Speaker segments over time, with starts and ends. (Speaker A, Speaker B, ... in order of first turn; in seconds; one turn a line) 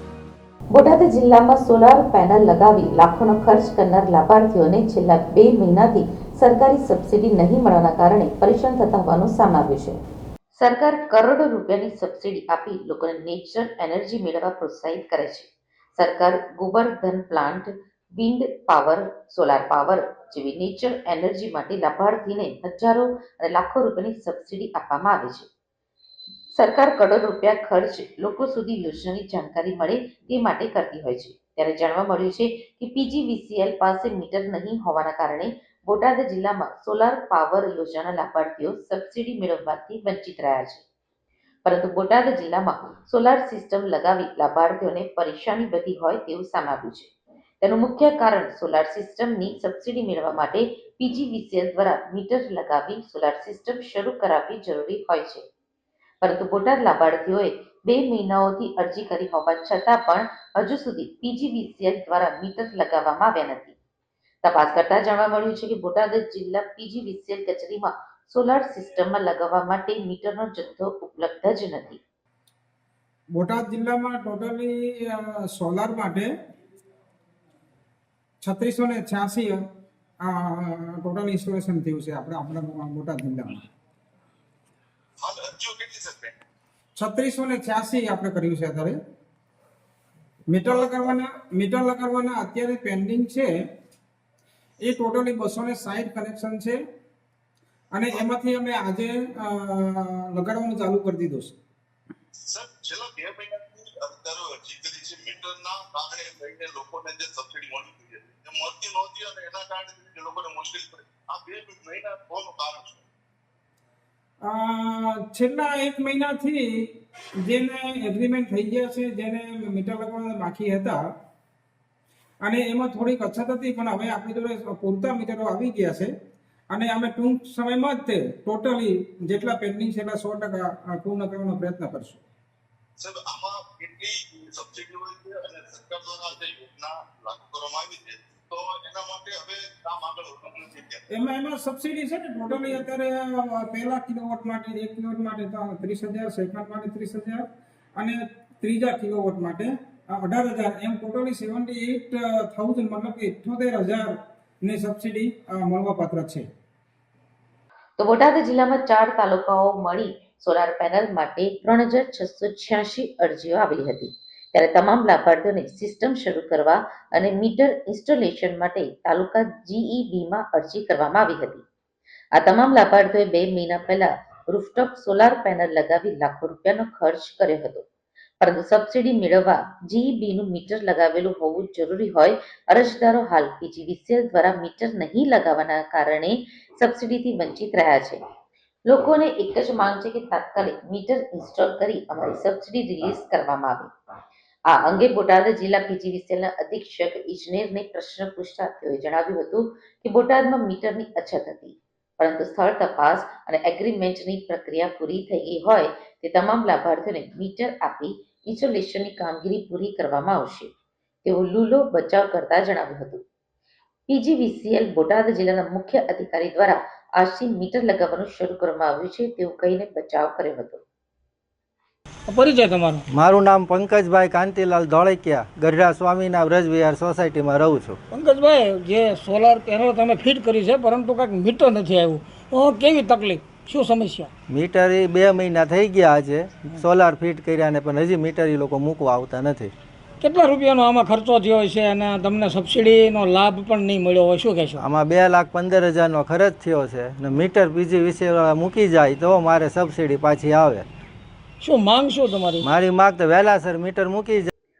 Speaker A: 0.7-10.0
Speaker A: 10.6-25.5
Speaker A: 26.6-40.9
Speaker A: 41.6-55.4
Speaker A: 56.2-63.8
Speaker A: 64.4-72.0
Speaker B: 73.4-76.3
Speaker B: 78.4-79.6
Speaker B: 80.2-83.6
Speaker C: 85.2-86.4
Speaker B: 87.0-89.0
Speaker B: 90.5-93.5
Speaker B: 94.8-96.8
Speaker B: 97.9-101.5
Speaker C: 102.5-113.0
Speaker B: 114.5-116.8
Speaker B: 117.5-121.0
Speaker B: 122.4-126.1
Speaker B: 126.7-132.2
Speaker C: 133.0-141.0
Speaker B: 141.1-147.5
Speaker B: 148.0-156.5
Speaker A: 158.0-171.7
Speaker A: 172.3-177.9
Speaker A: 178.4-188.2
Speaker A: 188.9-193.9
Speaker A: 194.7-210.7
Speaker A: 211.2-213.2
Speaker A: 214.1-220.8
Speaker D: 222.3-223.1
Speaker E: 223.1-228.0
Speaker D: 228.1-234.3
Speaker E: 234.5-239.7
Speaker D: 240.2-244.8
Speaker E: 244.8-250.9
Speaker D: 251.6-252.7
Speaker E: 252.6-254.5